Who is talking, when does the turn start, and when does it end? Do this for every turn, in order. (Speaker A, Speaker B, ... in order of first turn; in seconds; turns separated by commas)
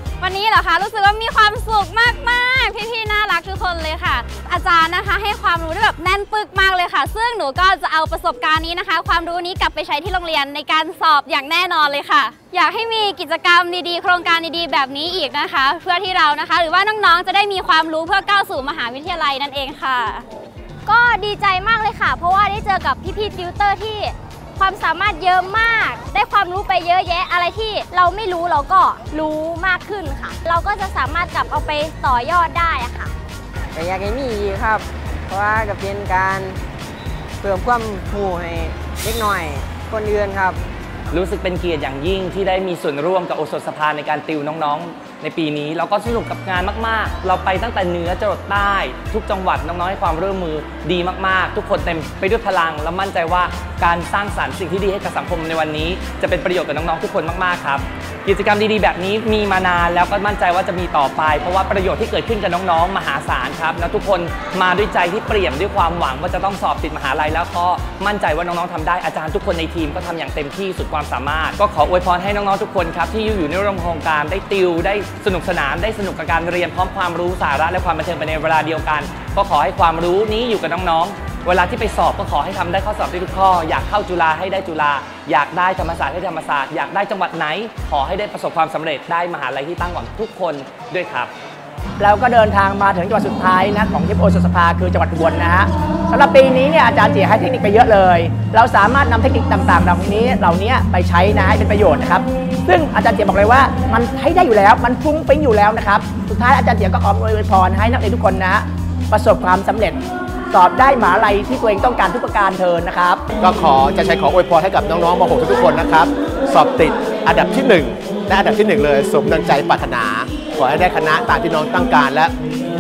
Speaker A: 0.2-20.2, Speaker B: 20.9-24.0, Speaker A: 21.9-29.7, Speaker B: 24.6-26.5, Speaker B: 27.9-33.1, Speaker C: 33.7-36.6, Speaker C: 37.4-40.6, Speaker D: 41.1-91.3, Speaker E: 92.0-110.0, Speaker E: 110.5-113.2, Speaker F: 113.4-122.3